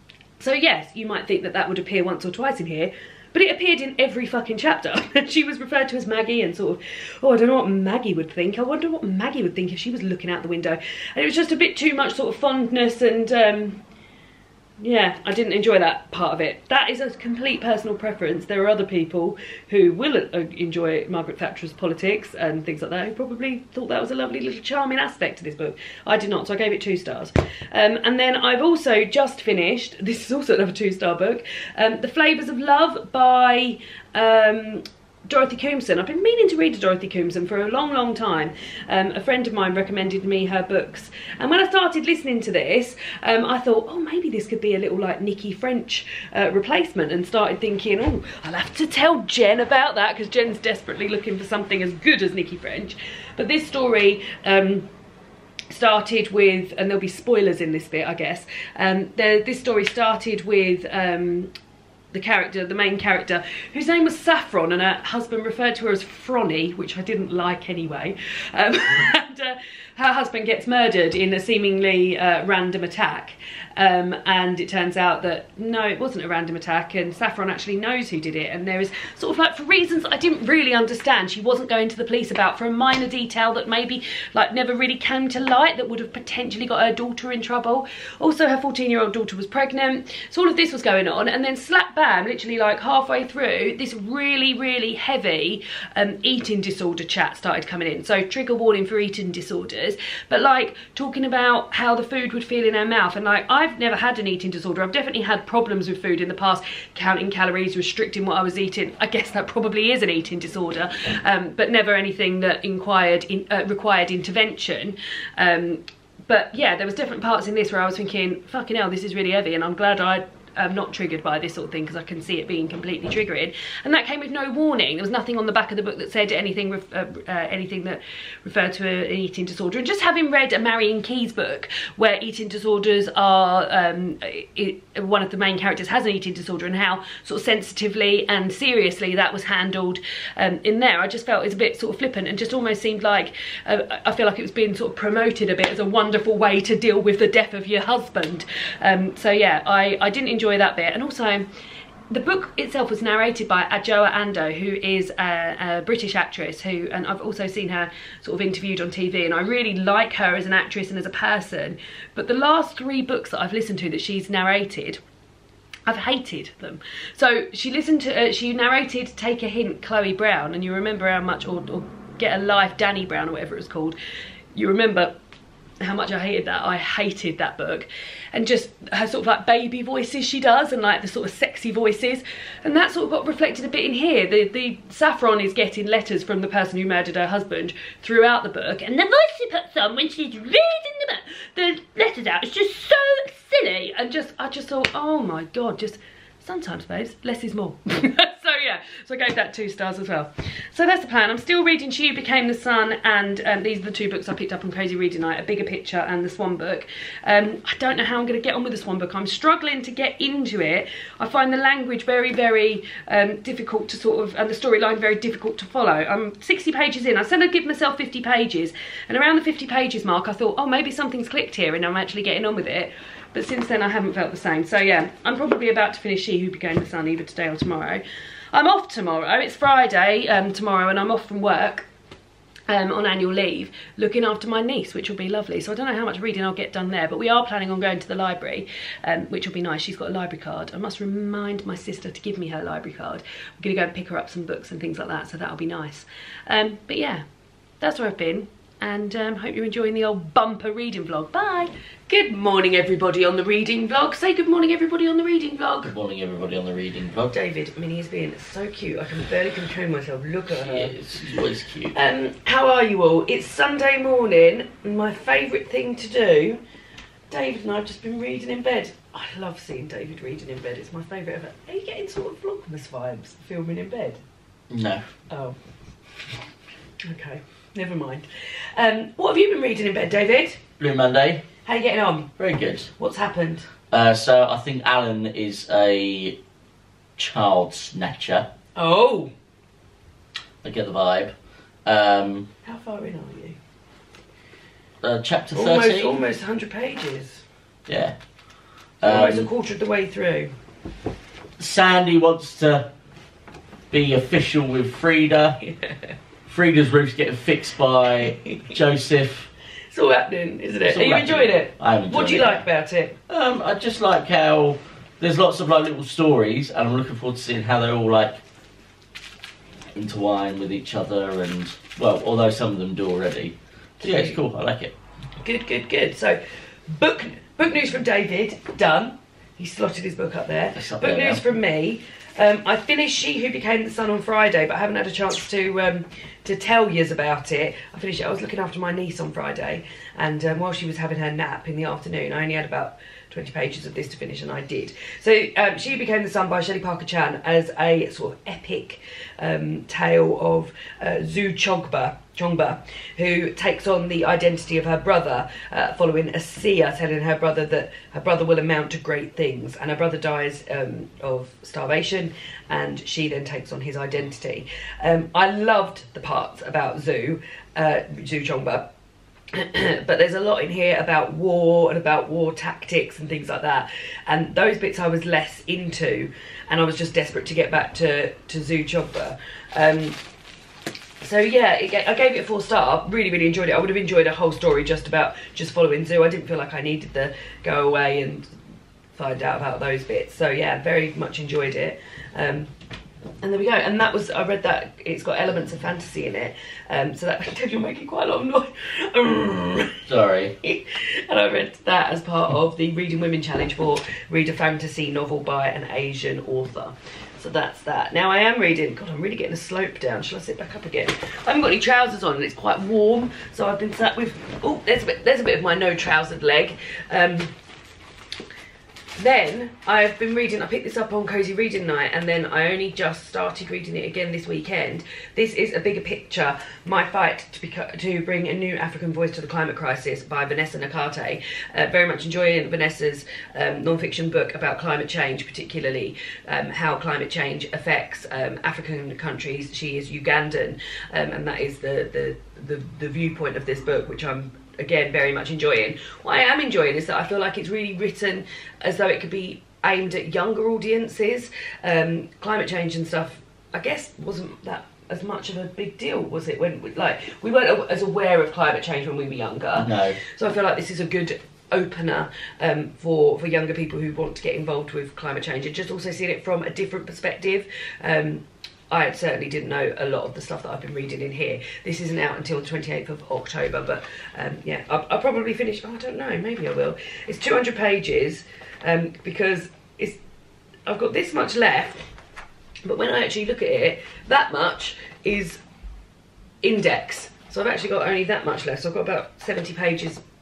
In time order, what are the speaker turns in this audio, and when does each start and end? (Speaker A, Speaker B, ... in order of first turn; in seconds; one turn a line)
Speaker A: 0.4-13.8
Speaker A: 14.8-54.9
Speaker A: 55.7-61.5
Speaker A: 62.1-151.5
Speaker A: 152.1-165.0
Speaker A: 165.9-173.9
Speaker A: 174.5-175.2
Speaker A: 175.8-228.0
Speaker A: 228.5-231.9
Speaker A: 232.7-247.2
Speaker A: 247.8-255.9
Speaker B: 255.8-257.3
Speaker A: 257.3-261.0
Speaker B: 260.6-261.9
Speaker A: 261.9-266.6
Speaker A: 267.3-274.2
Speaker B: 274.7-275.0
Speaker A: 275.3-275.6
Speaker A: 277.0-280.6
Speaker B: 280.8-281.4
Speaker A: 281.6-282.4
Speaker B: 282.4-282.9
Speaker A: 283.0-283.7
Speaker B: 283.9-286.4
Speaker B: 287.2-288.5
Speaker A: 288.8-289.3
Speaker B: 290.6-291.3
Speaker B: 291.8-292.5
Speaker A: 292.6-293.6
Speaker B: 295.0-296.2
Speaker A: 295.5-297.4
Speaker B: 297.9-298.1
Speaker B: 299.0-299.5
Speaker A: 299.0-300.5
Speaker B: 301.6-302.9
Speaker B: 303.9-305.6
Speaker A: 305.6-305.9
Speaker B: 306.4-309.5
Speaker A: 309.9-313.2
Speaker B: 310.9-312.6
Speaker B: 313.3-318.4
Speaker B: 319.9-324.9
Speaker A: 324.0-324.4
Speaker A: 325.4-368.9
Speaker B: 330.8-331.4
Speaker A: 369.5-380.2
Speaker A: 381.2-388.5
Speaker A: 389.1-392.7
Speaker A: 393.4-400.0
Speaker B: 400.1-400.6
Speaker A: 400.6-417.5
Speaker A: 419.2-480.2
Speaker B: 459.8-460.2
Speaker A: 480.9-482.0
Speaker A: 482.8-485.6
Speaker A: 486.6-490.2